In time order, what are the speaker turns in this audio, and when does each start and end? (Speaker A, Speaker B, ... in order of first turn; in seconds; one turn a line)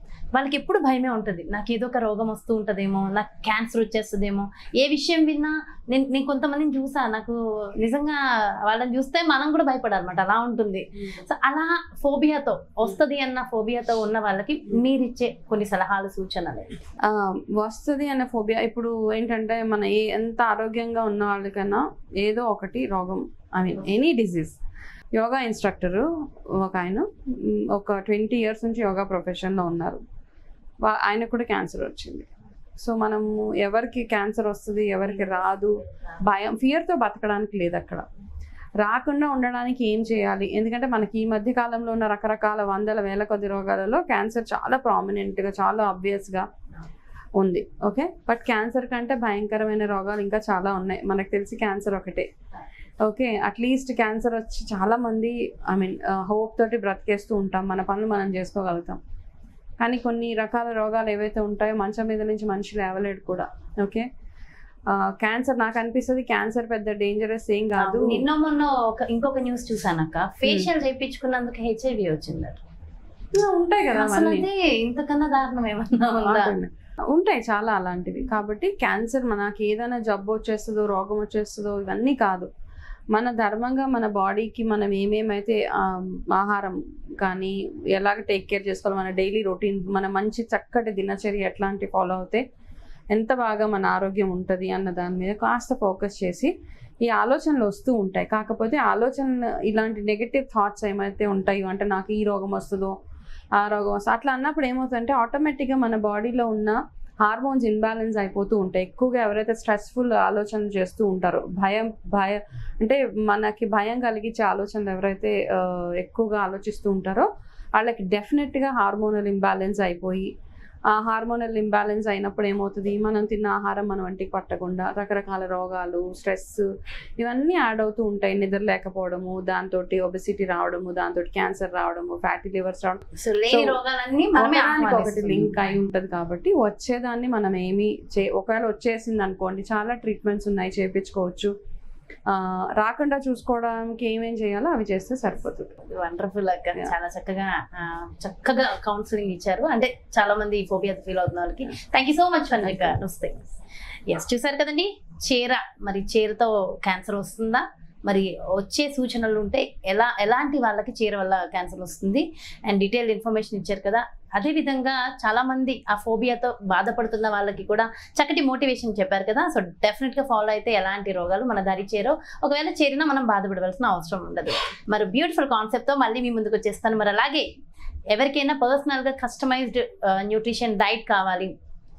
Speaker A: 0.3-16.7
Speaker B: 17.1-24.6
Speaker B: 25.1-26.1
Speaker B: 26.6-30.0
Speaker B: 30.9-32.3
Speaker B: 32.8-38.0
Speaker B: 38.8-46.5
Speaker B: 47.4-52.3
Speaker B: 53.0-59.0
Speaker B: 59.8-64.1
Speaker B: 64.9-68.3
Speaker A: 67.8-72.6
Speaker B: 70.5-70.7
Speaker B: 73.3-74.5
Speaker A: 74.0-76.5
Speaker B: 76.2-82.5
Speaker B: 83.1-92.4
Speaker B: 93.1-96.5
Speaker B: 97.1-102.9
Speaker B: 103.6-120.3
Speaker B: 120.9-126.7
Speaker B: 127.2-133.8
Speaker A: 133.2-135.6
Speaker B: 134.4-141.5
Speaker B: 142.3-145.7
Speaker A: 145.8-153.5
Speaker A: 154.1-177.5
Speaker A: 178.1-181.5